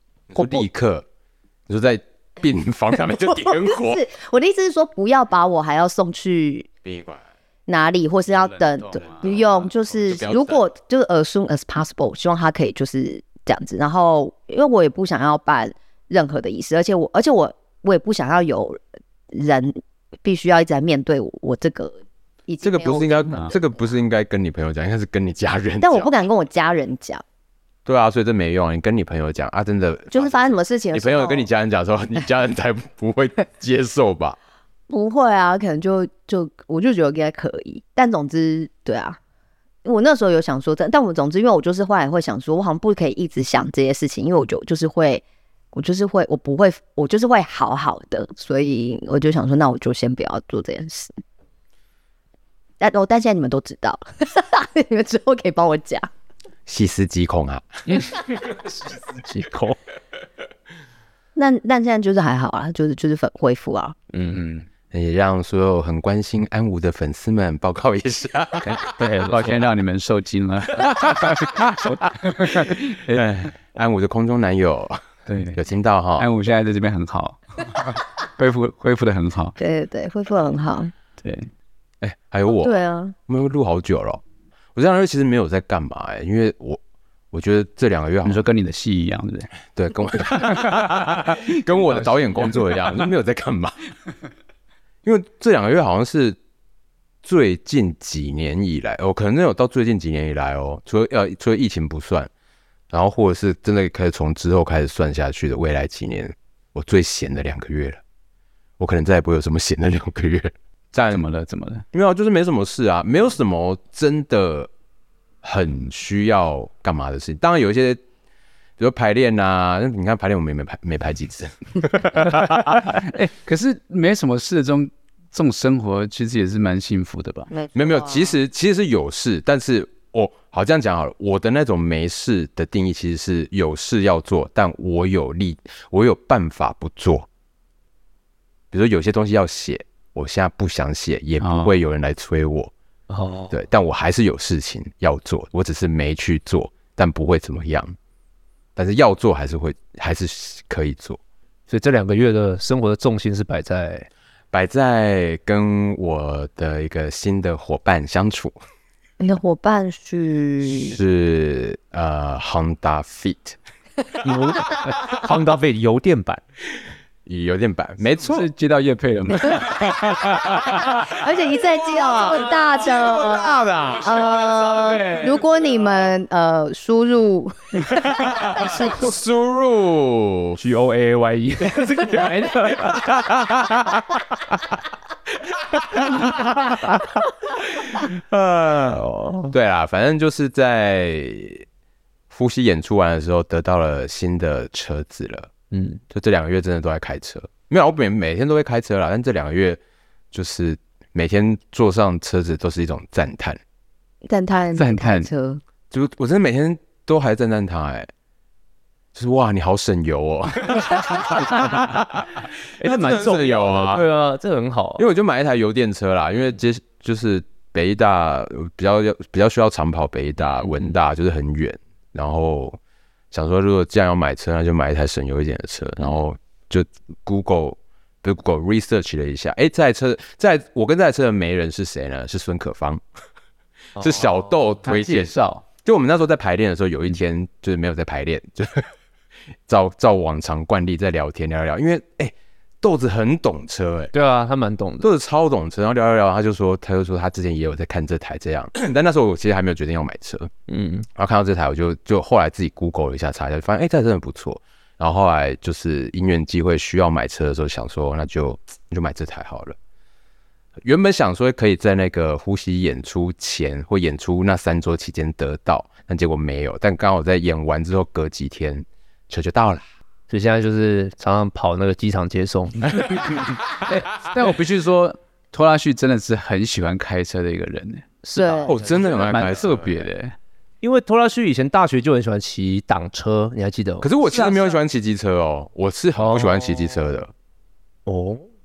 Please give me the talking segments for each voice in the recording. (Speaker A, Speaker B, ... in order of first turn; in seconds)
Speaker A: 0.3-1.1, 1.7-4.0, 6.8-7.2, 9.0-10.6, 22.6-26.1, 27.9-34.4, 56.7-57.8, 64.9-68.8, 73.1-75.0, 75.6-76.3, 82.0-84.2, 84.8-86.8, 87.3-88.4, 89.7-93.8, 95.0-96.4, 97.2-102.3, 102.9-108.0, 108.8-111.2, 111.9-114.7, 115.4-118.0, 118.8-122.7, 127.8-137.3, 138.7-142.7, 143.5-148.0, 148.8-151.2, 154.5-158.6, 160.6-163.6, 167.3-168.5, 169.6-171.2, 171.9-174.3, 178.1-180.6, 181.7-184.0, 185.7-186.8, 187.8-191.7, 192.3-195.5, 196.1-199.8, 200.3-203.6, 205.9-208.1, 209.2-214.1, 215.0-222.8, 223.3-233.0, 234.0-238.9, 239.7-244.1, 245.0-250.5, 251.2-259.8, 260.8-269.9, 278.7-280.1, 284.0-287.3
Speaker B: 0.4-0.7, 3.0-6.7, 7.7-18.8, 19.3-23.6, 25.8-27.2, 30.1-31.5, 34.9-39.2, 39.9-51.2, 52.8-56.1, 61.4-64.0, 79.6-80.9, 82.6-83.2, 127.5-128.4, 159.2-161.0, 171.1-179.0, 204.3-205.6, 278.4-278.8
Speaker C: 8.3-9.3, 64.3-64.7, 69.3-73.2, 75.3-75.6, 76.2-79.6, 81.2-81.5, 88.2-89.5, 111.1-111.8, 122.2-127.5, 141.4-141.7, 168.2-170.2, 204.7-205.3, 234.8-235.6, 273.4-278.1, 279.1-280.4
Speaker D: 57.9-59.8, 64.1-64.4, 68.6-69.6, 143.1-143.6, 151.7-154.1, 164.2-166.4, 180.6-183.3, 188.9-189.5, 195.7-196.0, 211.5-211.9, 212.8-215.1, 244.1-245.1, 250.7-251.1, 270.3-273.4, 278.2-279.2, 280.8-284.8, 286.2-287.1, 288.1-288.4